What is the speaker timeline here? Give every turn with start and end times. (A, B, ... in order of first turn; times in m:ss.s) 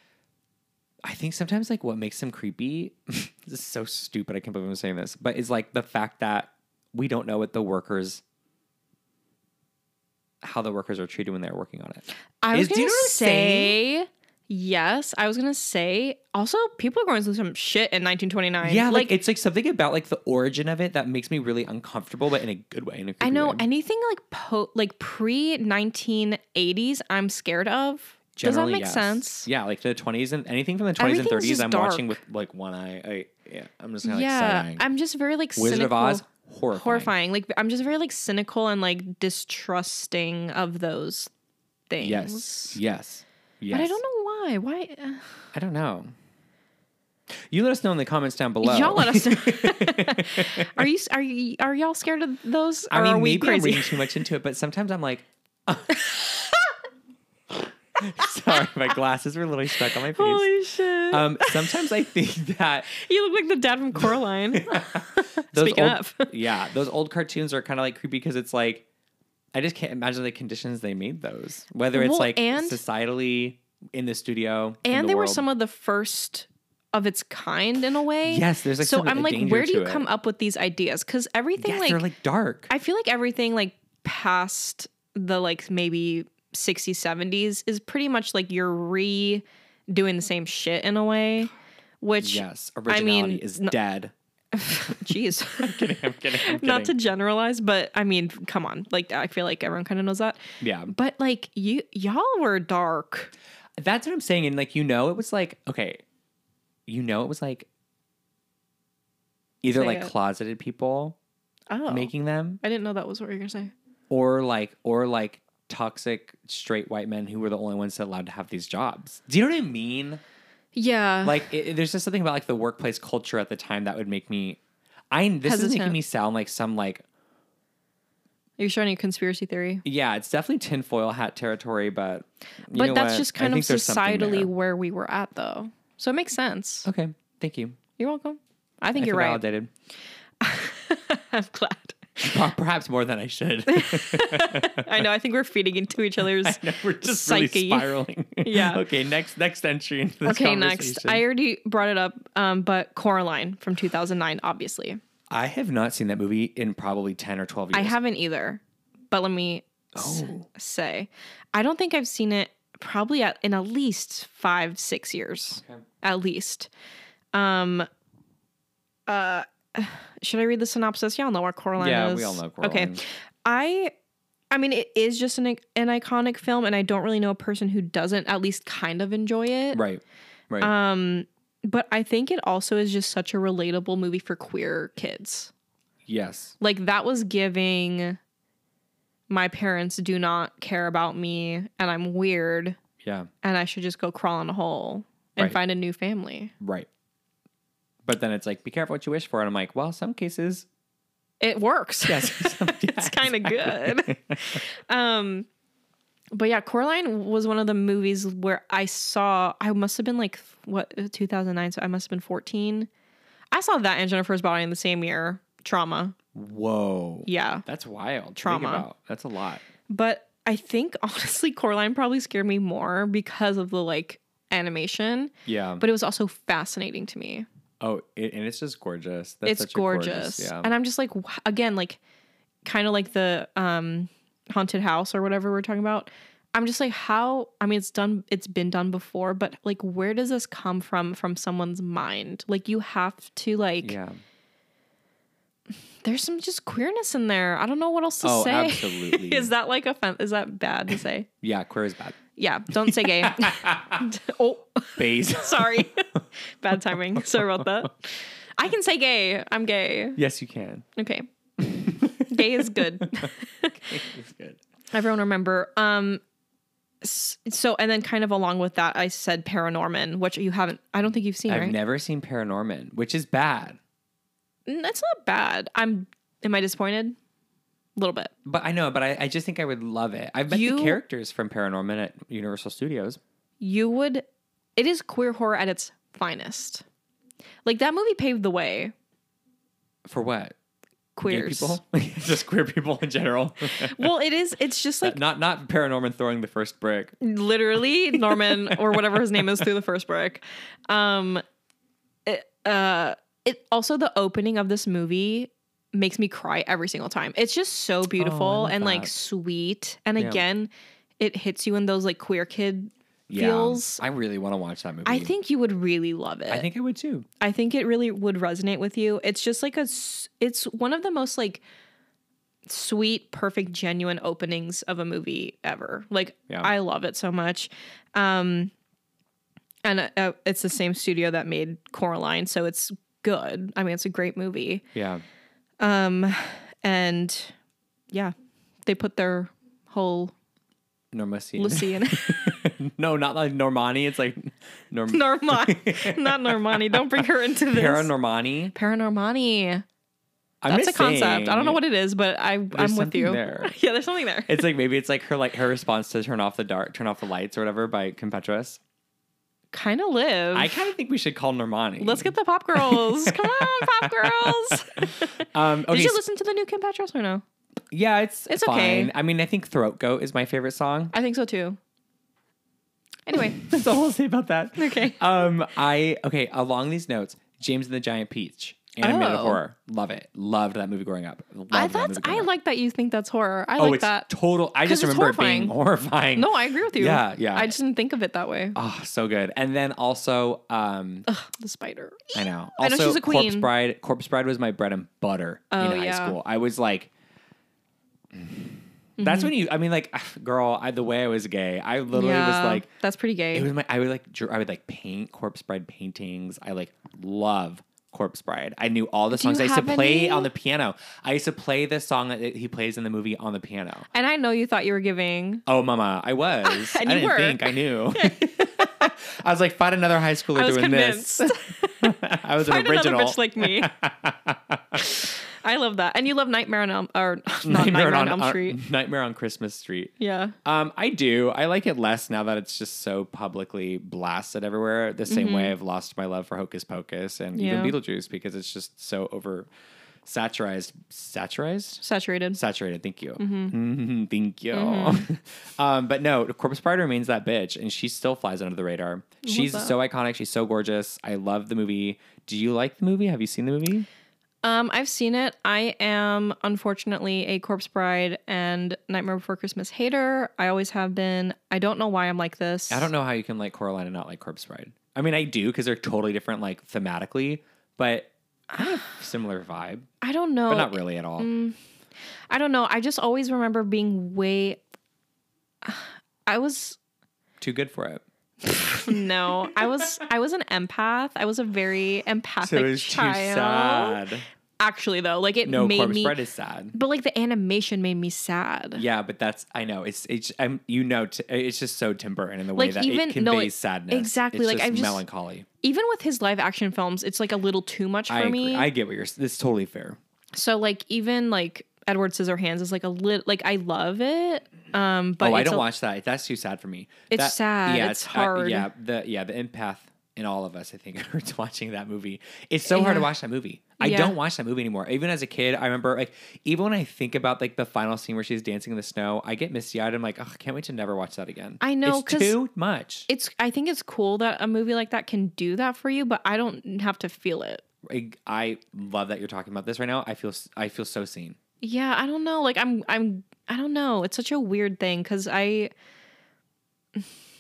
0:01.0-0:08.2 A
0:10.4-0:13.8 A
0:12.4-0:19.1 B
0:18.6-0:23.6 A
0:23.2-0:29.5 B
0:28.4-0:34.8 A
0:31.0-0:32.2 B
0:34.0-0:41.3 B
0:35.6-0:37.1 A
0:41.9-0:42.8 B
0:42.0-0:44.0 A
0:43.7-0:45.4 B
0:45.5-0:46.1 A
0:47.4-0:50.9 A
0:48.6-0:54.2 B
0:52.9-0:56.5 A
0:58.0-1:00.5 A
1:00.0-1:01.9 B
1:01.1-1:02.9 A
1:02.9-1:06.3 B
1:04.1-1:08.9 A
1:09.5-1:15.4 A
1:11.9-1:12.8 B
1:14.8-1:22.0 B
1:18.3-1:20.1 A
1:21.6-1:22.7 A
1:22.7-1:33.8 B
1:32.2-1:34.1 A
1:34.5-1:43.3 B
1:34.9-1:37.0 A
1:40.6-1:40.9 A
1:43.8-1:46.0 A
1:46.9-1:47.7 A
1:49.6-1:51.2 A
1:49.7-1:50.1 B
1:51.7-1:53.7 B
1:51.9-1:52.6 A
1:54.1-2:00.2 A
2:00.8-2:01.5 B
2:01.2-2:04.6 A
2:05.1-2:07.0 A
2:05.4-2:06.0 B
2:08.6-2:09.8 B
2:09.8-2:14.5 A
2:12.7-2:16.9 B
2:16.8-2:17.8 A
2:18.0-2:19.4 B
2:19.0-2:19.7 A
2:20.4-2:22.4 B
2:22.2-2:25.0 A
2:23.7-2:28.8 B
2:26.2-2:31.2 A
2:30.2-2:35.0 B
2:35.3-2:38.0 A
2:37.7-2:46.7 B
2:40.0-2:40.4 A
2:47.3-2:47.9 B
2:49.1-2:53.9 B
2:51.8-2:53.0 A
2:54.5-2:59.8 B
2:59.7-3:00.7 A
3:00.6-3:05.5 B
3:06.1-3:06.6 A
3:06.6-3:08.2 B
3:09.3-3:12.8 B
3:13.0-3:13.3 A
3:13.4-3:16.5 B
3:16.6-3:16.9 A
3:18.0-3:20.7 A
3:21.4-3:25.5 B
3:22.1-3:24.6 A
3:26.3-3:32.9 B
3:33.5-3:36.2 B
3:36.3-3:39.6 A
3:37.3-3:37.6 B
3:38.4-3:38.9 B
3:39.9-3:47.5 B
3:45.5-3:45.8 A
3:47.8-3:50.7 A
3:49.4-3:52.0 B
3:52.6-4:04.0 B
4:03.8-4:04.2 A
4:06.0-4:11.3 B
4:08.2-4:09.5 A
4:11.4-4:12.2 A
4:12.4-4:20.2 B
4:12.8-4:14.1 A
4:15.0-4:16.2 A
4:16.7-4:17.9 A
4:20.2-4:20.8 A
4:21.0-4:21.3 B
4:21.6-4:24.6 A
4:22.1-4:23.8 B
4:24.9-4:26.2 B
4:27.0-4:31.8 B
4:31.5-4:33.8 A
4:34.7-4:37.2 B
4:38.0-4:38.3 B
4:38.4-4:43.2 A
4:40.5-4:41.0 B
4:43.6-4:44.2 B
4:44.8-4:46.8 B
4:47.6-4:48.9 B
4:50.0-4:50.6 A
4:51.2-4:51.8 B
4:51.3-4:54.1 A
4:53.7-4:55.2 B
4:55.0-4:57.2 A
4:57.2-5:01.4 B
4:58.1-4:59.6 A
5:02.3-5:14.0 B
5:08.2-5:09.1 A
5:10.2-5:10.4 A
5:13.3-5:15.3 A
5:15.0-5:16.7 B
5:16.5-5:17.3 A
5:17.4-5:21.6 B
5:22.7-5:28.7 B
5:29.8-5:34.8 B
5:34.9-5:35.2 A
5:35.8-5:37.5 B
5:38.8-5:40.3 B
5:41.1-5:48.8 A
5:41.6-5:42.7 B
5:45.1-5:48.1 B
5:48.7-5:49.8 B
5:50.6-5:51.8 A
5:50.7-5:54.6 B
5:52.7-5:53.7 A
5:54.5-5:58.8 A
5:59.7-6:00.7 B
6:00.5-6:06.2 A
6:02.0-6:07.4 B
6:07.9-6:11.1 A
6:08.5-6:09.1 B
6:11.1-6:11.8 B
6:13.3-6:13.7 B
6:13.4-6:22.5 A
6:14.8-6:15.2 B
6:19.0-6:19.6 B
6:21.7-6:24.3 B
6:23.8-6:27.7 A
6:24.8-6:25.7 B
6:26.4-6:28.8 B
6:28.8-6:31.3 A
6:31.3-6:33.7 B
6:32.4-6:37.1 A
6:35.7-6:36.4 B
6:38.3-6:42.9 A
6:39.2-6:39.5 B
6:42.1-6:43.7 B
6:43.5-6:54.1 A
6:49.3-6:50.5 B
6:54.1-6:55.6 B
6:55.7-7:05.0 A
6:56.6-6:59.1 B
7:00.6-7:03.9 B
7:05.0-7:08.8 B
7:07.7-7:10.1 A
7:10.2-7:10.6 B
7:10.6-7:19.7 A
7:15.3-7:15.7 B
7:17.6-7:18.0 B
7:20.2-7:22.0 A
7:22.0-7:22.6 B
7:22.5-7:34.1 A
7:23.4-7:23.7 B
7:24.7-7:25.3 B
7:29.4-7:30.0 B
7:34.6-7:43.1 B
7:42.9-7:50.1 A
7:50.2-7:51.8 B
7:50.7-7:51.5 A
7:52.5-7:54.8 B
7:55.8-7:57.0 B
7:57.6-7:58.2 A
7:58.6-8:04.2 B
8:02.6-8:04.4 A
8:04.8-8:06.4 B
8:05.6-8:07.0 A
8:06.9-8:09.0 B
8:09.0-8:15.7 A
8:12.8-8:15.2 B
8:15.8-8:18.9 B
8:18.3-8:20.2 A
8:20.5-8:25.9 B
8:25.4-8:43.3 A
8:27.3-8:28.9 B
8:32.9-8:33.3 B
8:34.0-8:34.4 B
8:41.8-8:42.6 B
8:43.3-8:47.8 B
8:48.0-8:51.6 A
8:51.8-8:55.9 B